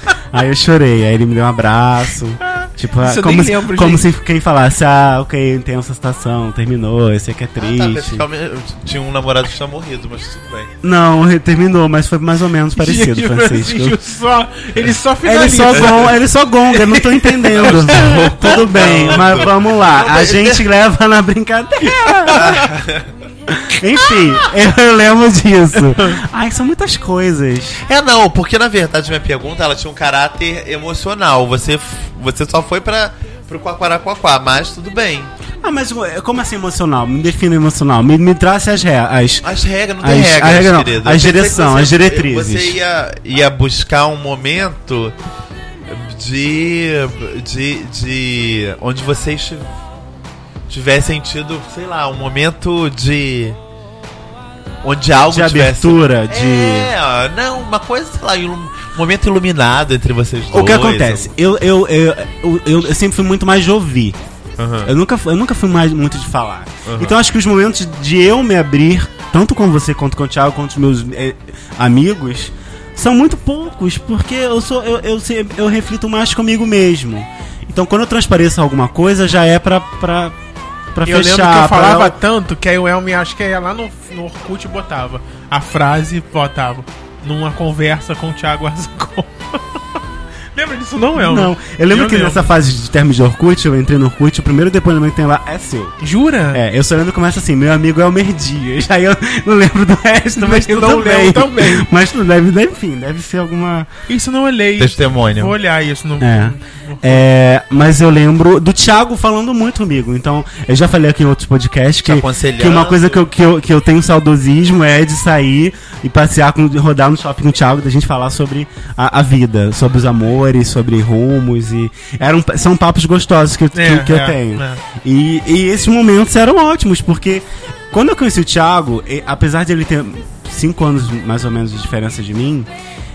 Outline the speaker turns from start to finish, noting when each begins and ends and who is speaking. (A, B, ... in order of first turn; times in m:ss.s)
0:00.3-0:08.2 A
0:02.4-0:04.1 B
0:07.6-0:10.7 C
0:10.8-0:14.0 A
0:12.7-0:16.2 B
0:15.2-0:22.7 A
0:16.7-0:18.9 B
0:17.5-0:20.7 C
0:21.9-0:22.7 B
0:22.3-0:23.1 C
0:23.5-0:27.8 A
0:25.8-0:26.2 B
0:27.9-0:35.3 C
0:35.6-0:39.5 A
0:39.4-0:45.2 C
0:40.0-0:42.8 A
0:45.9-0:49.7 C
0:50.7-0:53.6 C
0:54.8-1:01.3 C
0:55.3-0:56.9 A
1:00.5-1:04.2 A
1:04.6-1:04.9 C
1:04.8-1:20.4 A
1:06.8-1:07.2 C
1:20.9-1:22.2 A
1:21.0-1:29.8 B
1:30.6-1:32.5 B
1:31.2-1:36.0 A
1:36.0-1:36.6 B
1:36.5-1:43.9 A
1:40.4-1:41.9 B
1:44.1-1:47.2 B
1:44.8-1:45.6 C
1:46.2-2:12.7 A
1:52.0-1:53.3 C
2:03.7-2:04.8 B